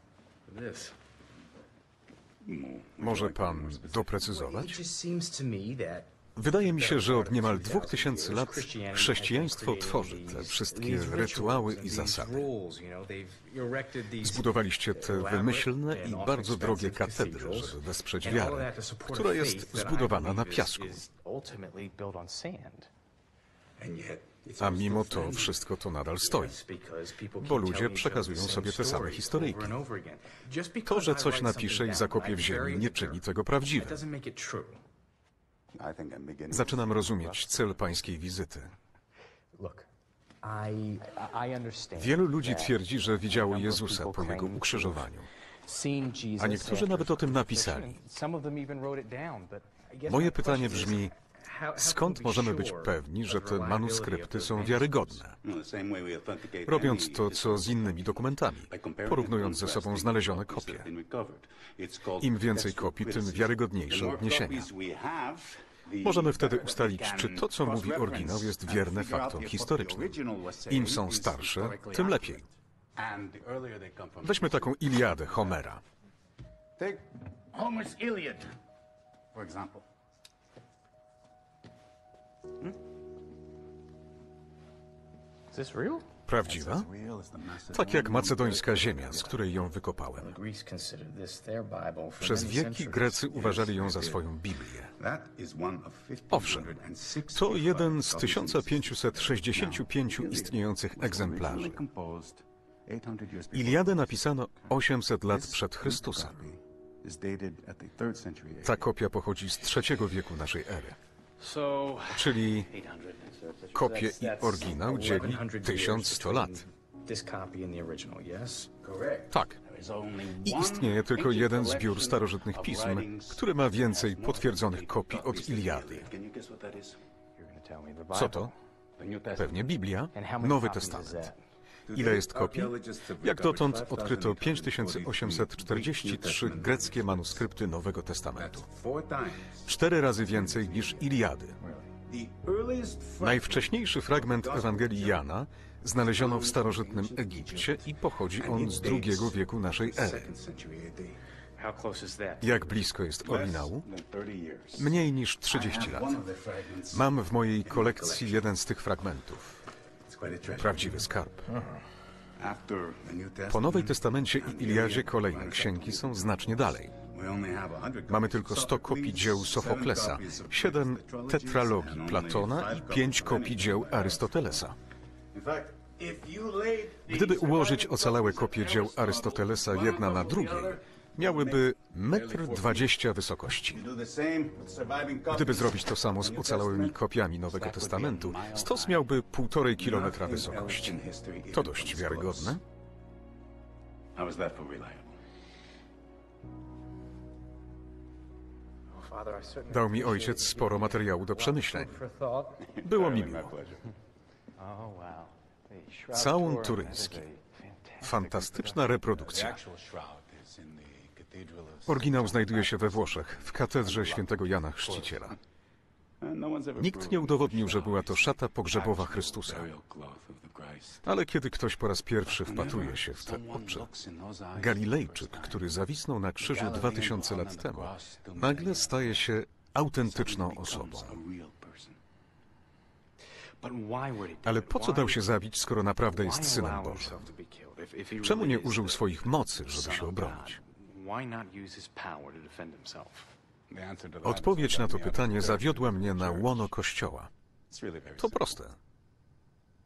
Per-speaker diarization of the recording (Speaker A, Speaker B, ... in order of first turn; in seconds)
Speaker A: 0.5-1.0, 4.2-22.9, 26.2-34.8, 39.5-39.9, 40.4-45.1, 45.6-55.2, 85.5-86.0, 90.2-93.3, 111.4-118.7, 127.4-128.5, 130.1-131.4, 151.6-152.9, 198.9-202.7, 204.6-209.2, 233.6-235.3, 236.1-243.3
Speaker B: 2.4-4.2, 23.8-25.6, 35.8-37.8, 55.4-75.5, 76.8-78.5, 79.3-79.8, 86.5-89.5, 93.3-94.2, 95.0-104.7, 105.3-108.9, 118.8-127.0, 129.0-129.7, 131.9-137.4, 138.4-145.2, 146.0-151.2, 153.2-157.1, 157.7-158.5, 160.1-161.1, 162.4-174.5, 175.3-182.9, 183.7-189.1, 189.8-192.6, 194.2-195.2, 202.7-203.9, 209.3-215.3, 216.2-221.0, 222.3-225.7, 226.4-229.3, 230.0-232.0, 243.7-246.7, 247.7-248.6
Speaker C: 3.0-4.8, 6.4-12.5, 14.2-21.0, 24.6-26.6, 27.4-29.7, 30.9-34.0, 36.5-38.7, 42.0-45.3, 46.4-48.0, 50.1-51.1, 51.8-55.4, 56.7-60.9, 62.2-64.7, 66.0-72.4, 74.2-75.8, 86.3-86.9, 87.7-90.3, 92.2-94.9, 96.3-96.8, 97.3-101.8, 103.5-106.4, 108.7-111.0, 112.1-112.7, 113.7-116.6, 119.3-119.6, 120.4-126.1, 128.1-128.5, 129.4-131.3, 131.9-138.7, 139.7-141.6, 143.2-150.3, 152.4-153.9, 154.8-156.2, 156.9-159.6, 160.6-161.5, 163.5-167.0, 168.1-174.8, 177.1-183.8, 185.3-191.0, 191.5-192.6, 199.7-202.0, 202.8-203.6, 206.1-207.2, 208.0-209.6, 211.9-215.4, 216.8-219.7, 221.0-223.9, 224.6-231.2, 234.4-237.3, 238.2-240.6, 244.2-247.3, 248.2-248.8